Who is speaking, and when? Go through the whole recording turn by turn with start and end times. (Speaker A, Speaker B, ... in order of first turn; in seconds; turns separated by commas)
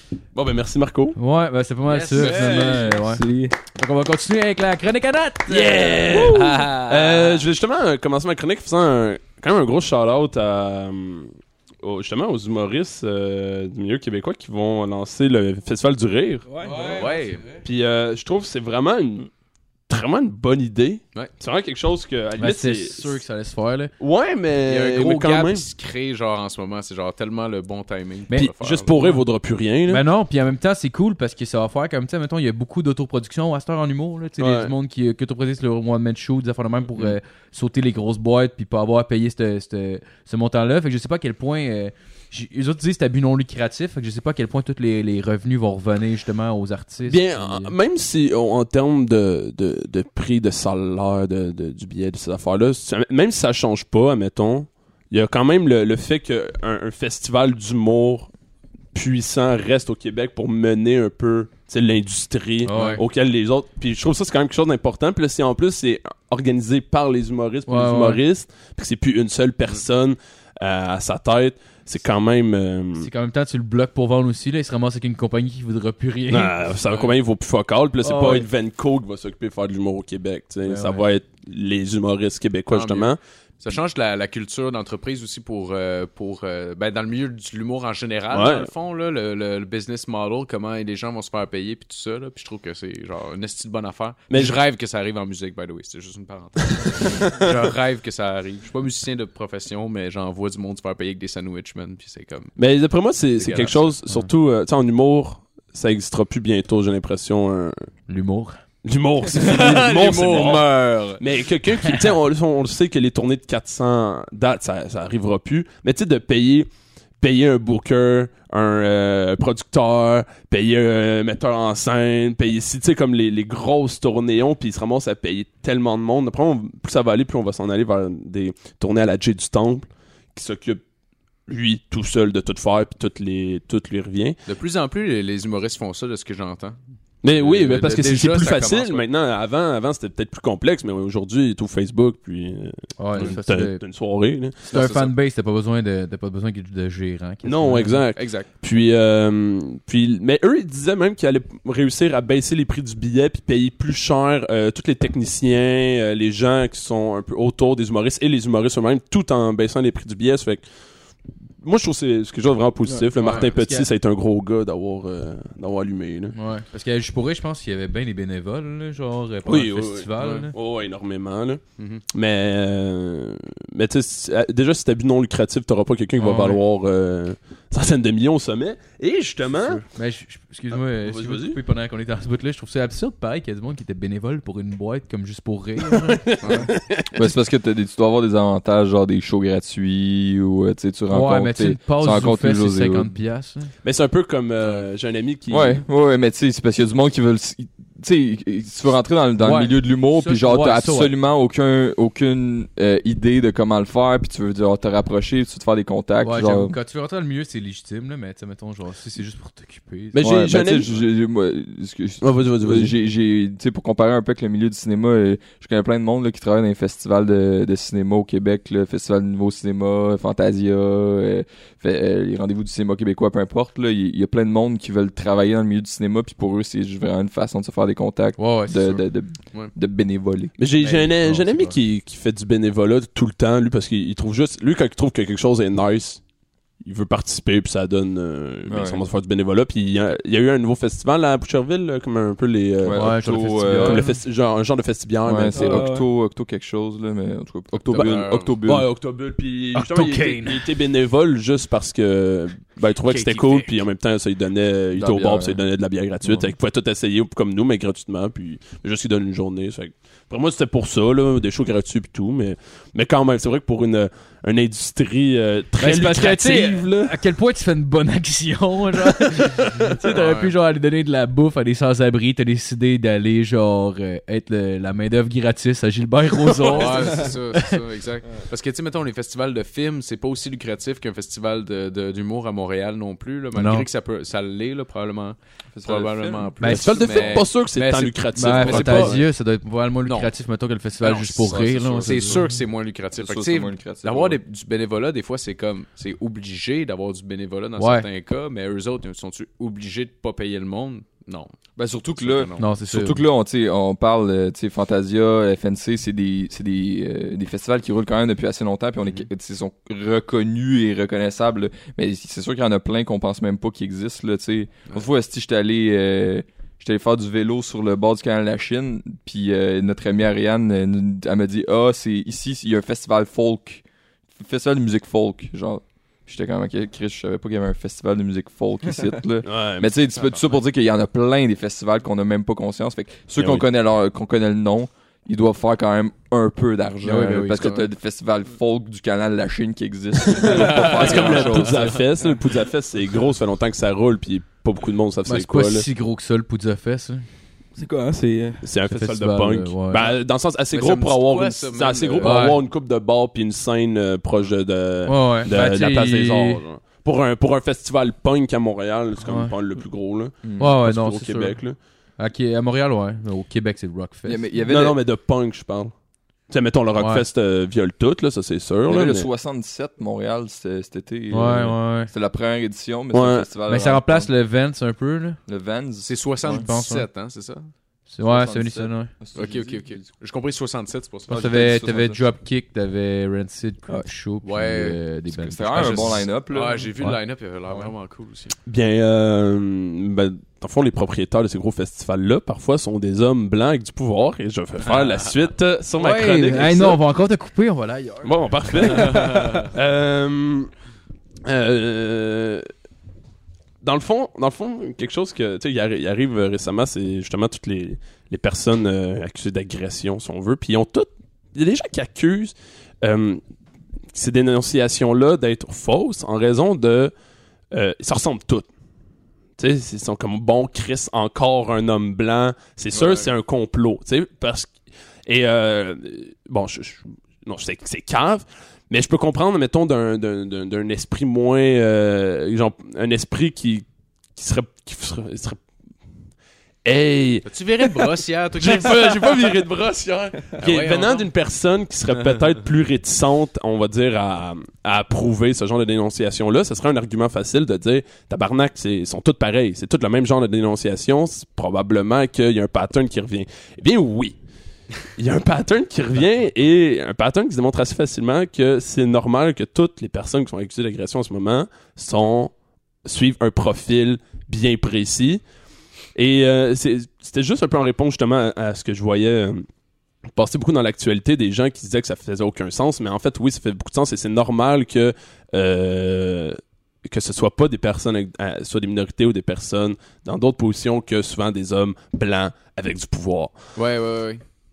Speaker A: 0.3-1.2, Speaker B: 1.2-7.5, Speaker C: 1.9-2.5, Speaker A: 2.1-3.0, Speaker D: 2.2-3.6, Speaker A: 5.5-16.5, Speaker D: 16.5-17.3, Speaker B: 16.6-17.6, Speaker C: 16.8-17.4, Speaker A: 17.6-19.3, Speaker A: 19.9-23.2, Speaker B: 22.4-23.9, Speaker A: 24.0-25.7, Speaker C: 24.6-28.9, Speaker B: 28.3-29.2, Speaker A: 28.4-30.0, Speaker B: 29.9-47.8, Speaker A: 34.4-34.7, Speaker A: 47.1-58.3, Speaker A: 58.9-73.1, Speaker B: 62.6-63.0, Speaker B: 67.7-68.2, Speaker B: 73.0-76.6, Speaker A: 76.3-83.2, Speaker C: 76.9-77.1, Speaker B: 78.0-78.5, Speaker B: 80.6-81.1, Speaker C: 82.7-102.5, Speaker A: 88.3-88.7, Speaker A: 94.3-94.6, Speaker A: 96.7-97.5, Speaker A: 102.6-107.9, Speaker C: 103.4-104.0, Speaker B: 108.1-108.6, Speaker A: 108.8-116.7, Speaker C: 109.3-111.2, Speaker A: 117.2-130.8, Speaker A: 131.5-134.4, Speaker C: 134.5-136.8, Speaker A: 137.2-144.7, Speaker C: 137.4-139.1, Speaker B: 143.0-143.8, Speaker C: 144.7-145.1, Speaker B: 144.7-148.0, Speaker A: 147.4-160.6, Speaker C: 148.2-148.5, Speaker A: 161.6-166.3, Speaker D: 162.9-163.4, Speaker B: 163.2-163.9, Speaker B: 166.3-170.6, Speaker A: 169.4-171.6, Speaker C: 170.2-170.4, Speaker C: 171.8-172.0, Speaker A: 172.1-179.8, Speaker B: 176.2-176.6, Speaker B: 179.7-186.7, Speaker A: 181.0-181.6, Speaker A: 185.9-187.2, Speaker C: 186.4-186.7, Speaker E: 187.1-193.1, Speaker B: 191.1-193.7, Speaker A: 193.8-195.8, Speaker E: 195.5-206.8, Speaker B: 199.4-201.2, Speaker B: 206.2-210.2, Speaker A: 210.1-210.9, Speaker E: 210.2-230.5, Speaker A: 212.2-212.9, Speaker B: 228.4-228.8, Speaker A: 230.6-236.2, Speaker B: 230.8-231.8, Speaker A: 236.8-243.2, Speaker E: 238.7-239.0, Speaker E: 242.8-244.1, Speaker B: 242.9-244.1, Speaker A: 243.7-245.9, Speaker E: 245.3-248.9, Speaker D: 245.5-246.1, Speaker A: 247.9-267.2, Speaker C: 247.9-248.5, Speaker B: 249.7-250.7, Speaker B: 253.1-253.7, Speaker E: 254.9-255.6, Speaker B: 265.8-277.8, Speaker C: 270.0-270.6, Speaker C: 276.7-289.2, Speaker D: 277.0-277.3, Speaker B: 283.6-283.9, Speaker E: 285.7-286.5, Speaker B: 286.6-287.0, Speaker A: 286.7-289.3, Speaker B: 288.3-292.5, Speaker C: 290.1-290.3, Speaker C: 291.0-301.5, Speaker E: 291.6-292.5, Speaker E: 293.2-294.4, Speaker B: 297.8-298.1, Speaker E: 301.8-323.8, Speaker C: 302.2-302.7, Speaker B: 302.6-303.2, Speaker E: 324.4-342.0, Speaker A: 329.4-329.9, Speaker A: 333.4-333.7, Speaker B: 337.0-337.8, Speaker A: 340.3-345.9, Speaker C: 340.6-341.9, Speaker B: 345.2-347.2, Speaker D: 347.8-348.6, Speaker A: 348.6-361.8, Speaker B: 348.9-350.1, Speaker C: 350.7-352.4, Speaker B: 352.2-352.6, Speaker B: 355.1-356.6, Speaker B: 359.2-359.5, Speaker E: 360.4-360.8, Speaker B: 360.6-361.6, Speaker B: 362.2-364.4, Speaker E: 364.2-365.0, Speaker A: 364.7-365.9, Speaker A: 366.5-369.3, Speaker B: 367.0-367.3, Speaker E: 368.9-374.3, Speaker B: 371.3-372.1, Speaker A: 373.1-373.5, Speaker B: 373.7-375.4, Speaker E: 375.5-376.7, Speaker C: 376.1-377.7, Speaker B: 376.5-377.1, Speaker B: 378.1-379.1, Speaker E: 378.2-380.1, Speaker C: 379.4-381.4, Speaker E: 381.3-382.3, Speaker B: 381.3-386.2, Speaker C: 384.4-385.0, Speaker E: 385.3-386.9, Speaker C: 385.7-388.6, Speaker A: 388.7-397.0, Speaker C: 394.8-395.4, Speaker B: 395.9-399.1, Speaker A: 398.2-400.7, Speaker C: 398.9-399.6, Speaker D: 399.2-399.6, Speaker A: 401.4-402.7, Speaker A: 403.8-413.4, Speaker A: 414.1-417.1, Speaker A: 417.7-418.7, Speaker A: 419.6-435.6, Speaker C: 422.9-423.3, Speaker A: 436.9-454.4, Speaker C: 437.5-439.5, Speaker C: 440.6-441.3, Speaker A: 455.2-462.5, Speaker A: 463.1-465.4, Speaker A: 466.1-469.7, Speaker A: 470.3-483.6, Speaker C: 483.8-484.4